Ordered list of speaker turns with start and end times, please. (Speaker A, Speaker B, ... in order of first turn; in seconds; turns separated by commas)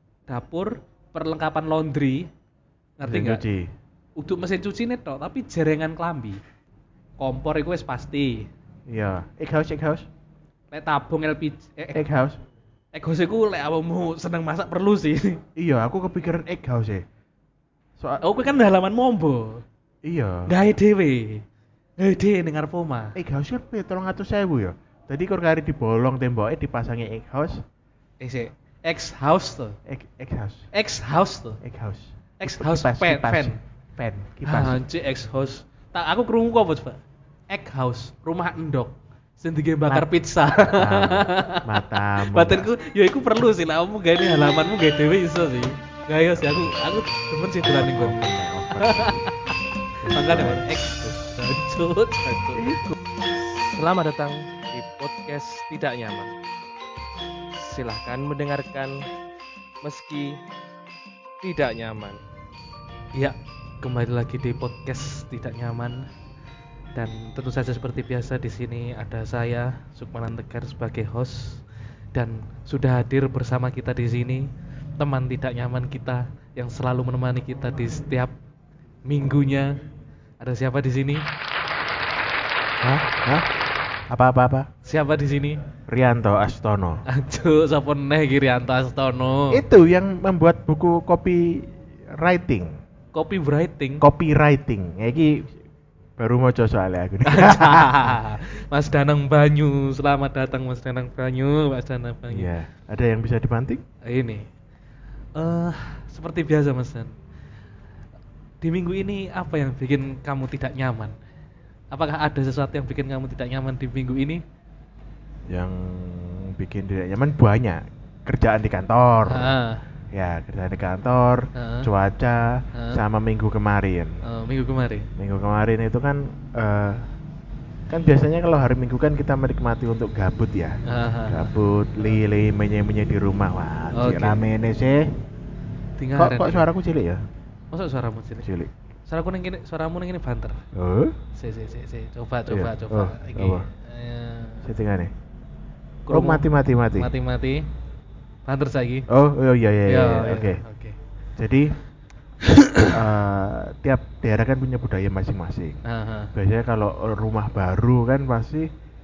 Speaker A: 0.3-2.3, Speaker A: 3.0-3.4, Speaker B: 3.0-3.7, Speaker A: 4.2-6.4, Speaker A: 7.2-8.5, Speaker B: 8.9-10.1, Speaker A: 10.7-12.1, Speaker B: 11.9-12.4, Speaker A: 12.9-15.4, Speaker B: 15.6-17.0, Speaker B: 18.0-18.2, Speaker A: 18.2-19.6, Speaker B: 20.0-20.5, Speaker A: 20.5-21.4, Speaker A: 22.0-23.1, Speaker B: 23.1-27.6, Speaker A: 28.2-29.8, Speaker B: 29.9-30.6, Speaker A: 30.7-31.6, Speaker B: 31.6-34.8, Speaker A: 32.4-33.6, Speaker A: 34.5-52.6, Speaker B: 40.7-42.7, Speaker B: 47.7-49.3, Speaker B: 50.0-50.8, Speaker C: 52.3-52.6, Speaker B: 52.5-52.9, Speaker A: 53.6-54.1, Speaker C: 53.8-56.4, Speaker C: 57.5-59.0, Speaker C: 59.8-60.4, Speaker C: 61.4-62.2, Speaker A: 63.1-66.1, Speaker A: 66.9-71.6, Speaker A: 72.1-78.3, Speaker A: 79.0-79.7, Speaker A: 80.4-81.3, Speaker B: 82.8-83.5, Speaker B: 84.1-84.7, Speaker A: 84.8-85.6, Speaker B: 85.9-87.0, Speaker A: 87.1-89.6, Speaker B: 89.5-92.7, Speaker A: 93.1-94.0, Speaker B: 94.0-95.5, Speaker B: 96.2-98.2, Speaker A: 97.3-102.5, Speaker B: 102.3-103.8, Speaker A: 104.0-104.5, Speaker A: 105.3-107.1, Speaker A: 108.6-111.1, Speaker A: 111.9-114.4, Speaker B: 115.5-119.5, Speaker A: 119.2-119.8, Speaker B: 120.1-124.2, Speaker A: 121.5-121.9, Speaker A: 122.7-123.0, Speaker A: 124.2-125.1, Speaker B: 125.2-127.0, Speaker B: 127.9-135.0, Speaker A: 130.9-131.5, Speaker A: 133.9-134.4, Speaker A: 136.0-136.7, Speaker B: 136.2-137.2, Speaker A: 137.7-138.5, Speaker B: 138.4-138.7, Speaker A: 139.1-140.6, Speaker B: 140.7-141.2, Speaker A: 141.3-144.7, Speaker B: 142.5-143.7, Speaker B: 144.6-145.1, Speaker A: 146.1-146.4, Speaker B: 146.1-147.1, Speaker A: 146.9-147.7, Speaker A: 148.4-149.1, Speaker B: 149.1-150.6, Speaker A: 149.9-151.0, Speaker B: 151.4-151.7, Speaker A: 152.4-152.9, Speaker B: 152.8-155.8, Speaker A: 155.8-156.3, Speaker B: 156.3-158.7